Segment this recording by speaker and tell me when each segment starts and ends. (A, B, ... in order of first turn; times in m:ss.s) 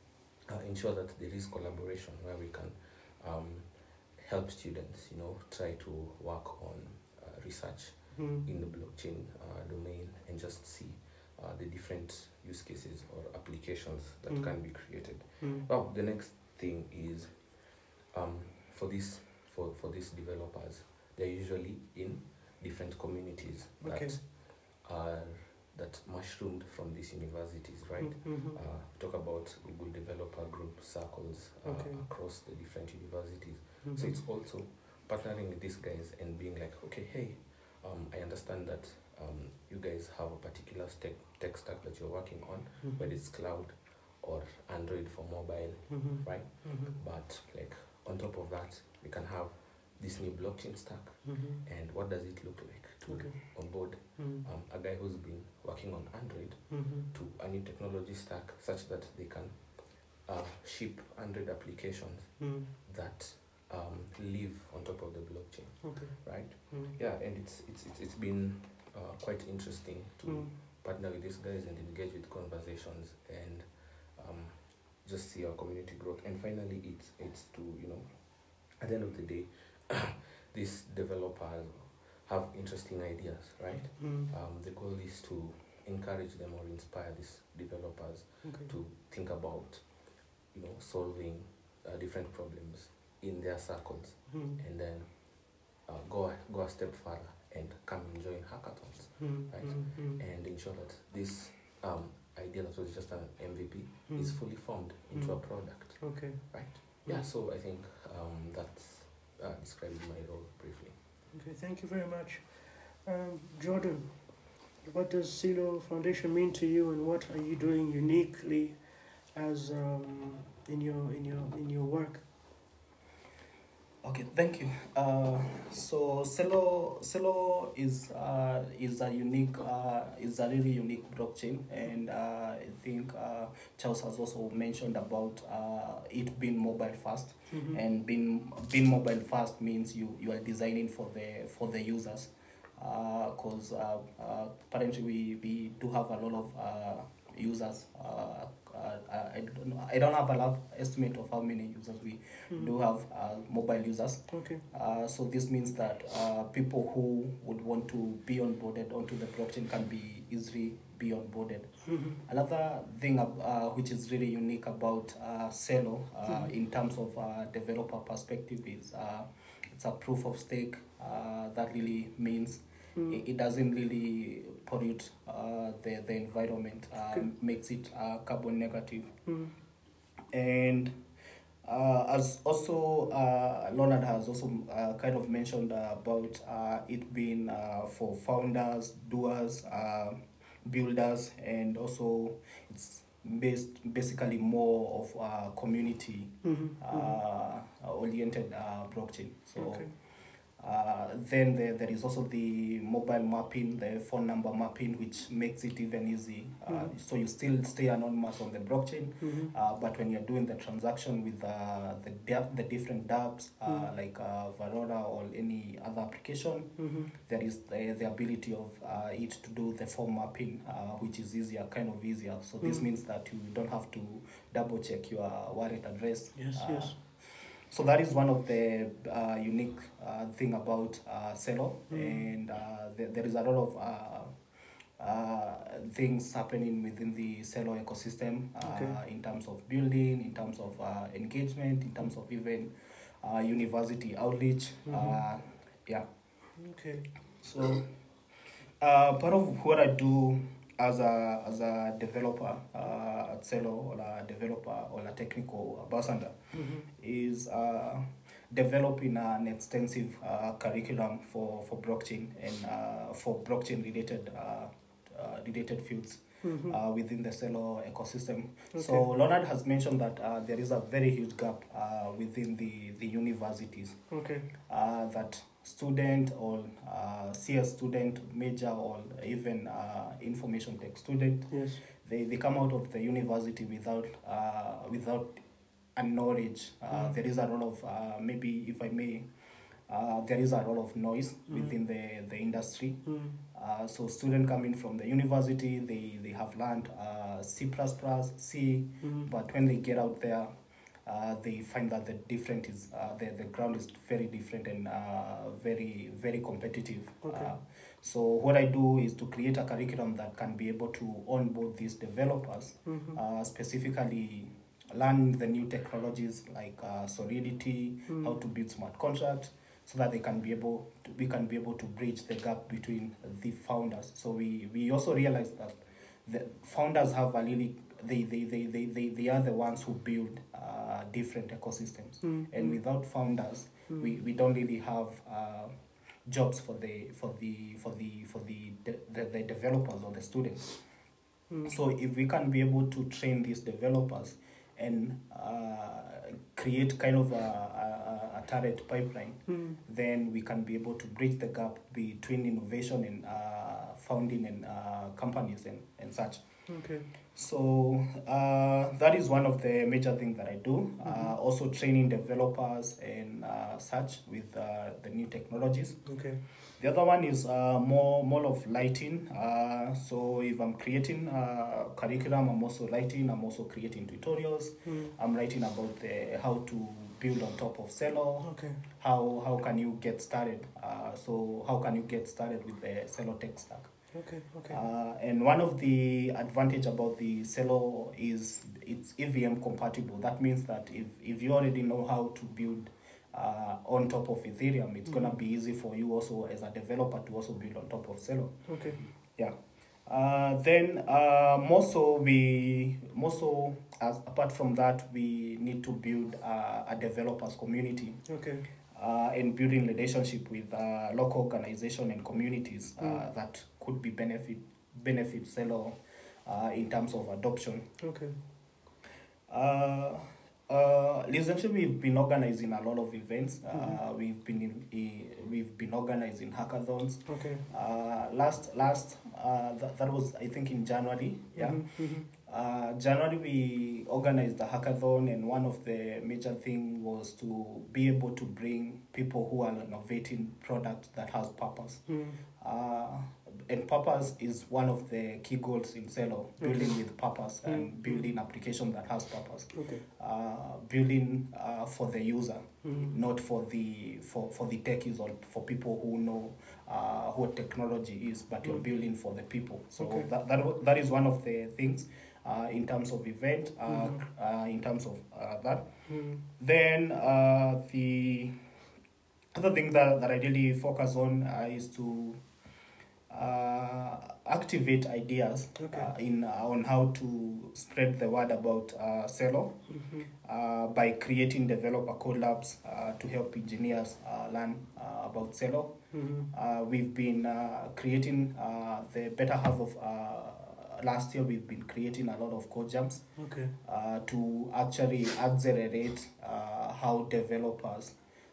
0:00.4-1:18.1 A
0:08.1-0:08.4 B
0:15.4-0:15.6 B
0:23.8-0:24.2 B
0:28.0-0:28.6 B
0:31.6-0:32.0 B
0:33.8-0:34.2 B
0:42.8-0:43.1 B
0:45.9-0:46.9 B
0:51.2-0:51.6 B
0:53.0-0:53.5 B
0:54.1-0:54.4 B
0:56.7-0:57.1 B
1:02.4-1:02.7 B
1:05.8-1:06.9 B
1:10.2-1:10.5 B
1:18.6-1:29.8 A
1:23.9-1:24.3 B
1:28.4-1:28.7 B
1:30.5-1:35.1 A
1:34.3-1:34.6 B
1:35.8-1:50.9 A
1:39.2-1:40.2 B
1:44.1-1:44.4 B
1:45.1-1:47.2 B
1:51.3-1:54.1 B
1:54.8-1:58.8 B
1:59.3-2:02.2 B
2:04.0-2:59.1 C
2:17.5-2:17.8 B
2:34.3-2:34.6 B
2:41.9-2:42.2 B
2:59.2-2:59.5 B
3:00.3-3:00.9 C
3:01.6-3:19.9 C
3:16.4-3:17.2 B
3:19.6-3:19.9 B
3:20.6-3:47.0 C
3:29.2-3:29.5 B
3:36.8-3:37.1 B
3:46.3-3:46.9 B
3:47.7-3:54.3 C
3:51.9-3:52.2 B
3:55.0-4:06.0 C
3:58.6-3:59.0 B
4:04.8-4:05.2 B
4:06.6-4:07.1 B
4:07.4-4:07.8 C
4:08.8-4:16.4 C
4:16.5-4:16.9 B
4:16.9-4:34.0 C
4:26.4-4:26.8 B
4:28.7-4:29.0 B
4:34.1-4:34.4 B
4:34.6-4:45.4 C
4:41.5-4:41.8 B
4:46.0-4:49.2 C
4:49.9-5:00.5 C
4:53.0-4:53.4 B
4:59.0-4:59.3 B
5:01.0-5:35.7 C
5:07.2-5:07.5 B
5:12.8-5:13.2 B
5:18.1-5:18.4 B
5:32.2-5:32.8 B
5:36.2-5:40.8 C
5:41.6-5:56.4 C
5:49.5-5:49.8 B
5:56.7-5:57.0 B
5:57.3-6:06.0 C
6:01.0-6:01.3 B
6:06.0-6:06.4 B
6:06.8-6:23.9 C
6:14.8-6:15.1 B
6:18.4-6:18.8 B
6:24.1-6:24.8 B
6:24.7-6:38.5 C
6:35.0-6:35.3 B
6:38.7-6:39.0 B
6:40.1-6:48.2 C
6:48.2-6:48.6 B
6:48.9-6:57.8 C
6:58.0-6:58.3 B
6:59.5-7:22.1 C
7:07.2-7:07.6 B
7:11.6-7:12.3 B
7:22.1-7:22.4 B
7:22.6-7:45.9 C
7:26.6-7:27.0 B
7:27.6-7:28.3 B
7:29.7-7:30.0 B
7:32.8-7:33.1 B
7:40.0-7:40.3 B
7:43.9-7:44.2 B
7:46.1-7:46.4 B
7:46.6-7:48.5 C
7:49.5-7:52.4 C
7:53.3-7:59.8 C
7:55.8-7:56.1 B
7:59.9-8:00.3 B
8:00.4-8:06.0 C
8:06.1-8:06.5 B
8:06.5-8:13.2 C
8:13.4-8:13.7 B
8:13.8-8:18.1 C